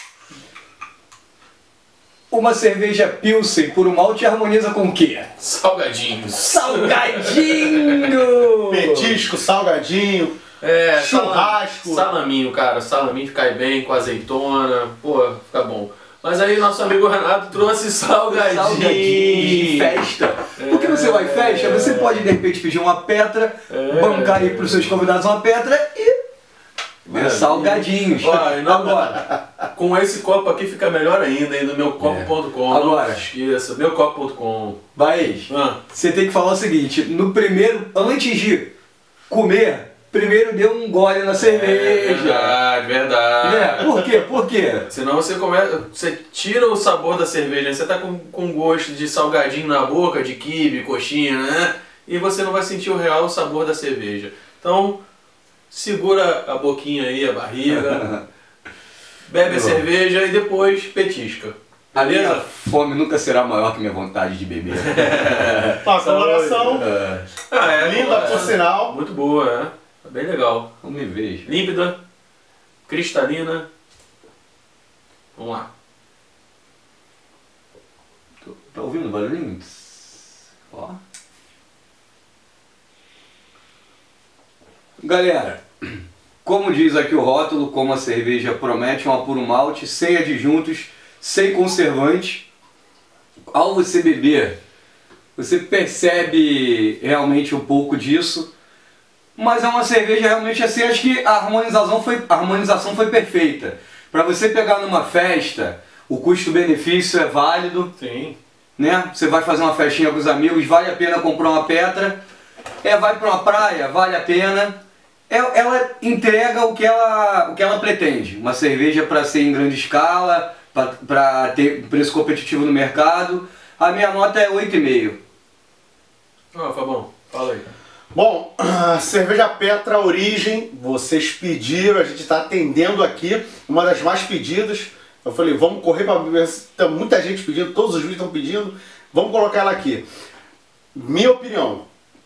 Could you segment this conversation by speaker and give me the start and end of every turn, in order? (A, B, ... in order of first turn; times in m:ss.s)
0:02.3-0:05.3 A
0:05.4-0:08.3 B
0:06.4-0:09.0 A
0:08.7-0:10.4 C
0:10.6-0:20.0 B
0:10.9-0:12.0 C
0:18.3-0:26.2 A
0:20.6-0:22.3 B
0:23.7-0:24.9 B
0:27.0-0:34.8 B
0:27.1-0:29.2 A
0:32.0-0:33.2 A
0:35.0-0:38.7 A
0:35.5-0:35.8 B
0:39.3-0:42.5 A
0:41.3-0:44.0 B
0:43.4-0:44.9 A
0:44.9-0:55.0 B
0:55.7-0:58.1 B
0:57.8-0:58.2 A
0:59.3-1:02.4 B
0:59.4-0:59.8 A
1:01.9-1:05.8 A
1:04.7-1:06.8 B
1:05.8-1:06.8 C
1:06.8-1:07.2 A
1:07.5-1:10.7 B
1:07.6-1:09.0 C
1:10.8-1:11.5 A
1:11.4-1:12.0 B
1:12.9-1:13.7 B
1:15.4-1:15.7 B
1:18.4-1:21.0 A
1:25.0-1:32.4 A
1:33.5-1:34.6 A
1:35.4-1:38.5 A
1:39.4-1:47.9 A
1:48.0-1:48.4 B
1:48.8-1:52.2 A
1:52.8-1:54.8 A
1:55.3-2:05.2 A
2:06.5-2:07.7 B
2:08.1-2:20.0 C
2:20.9-2:21.8 C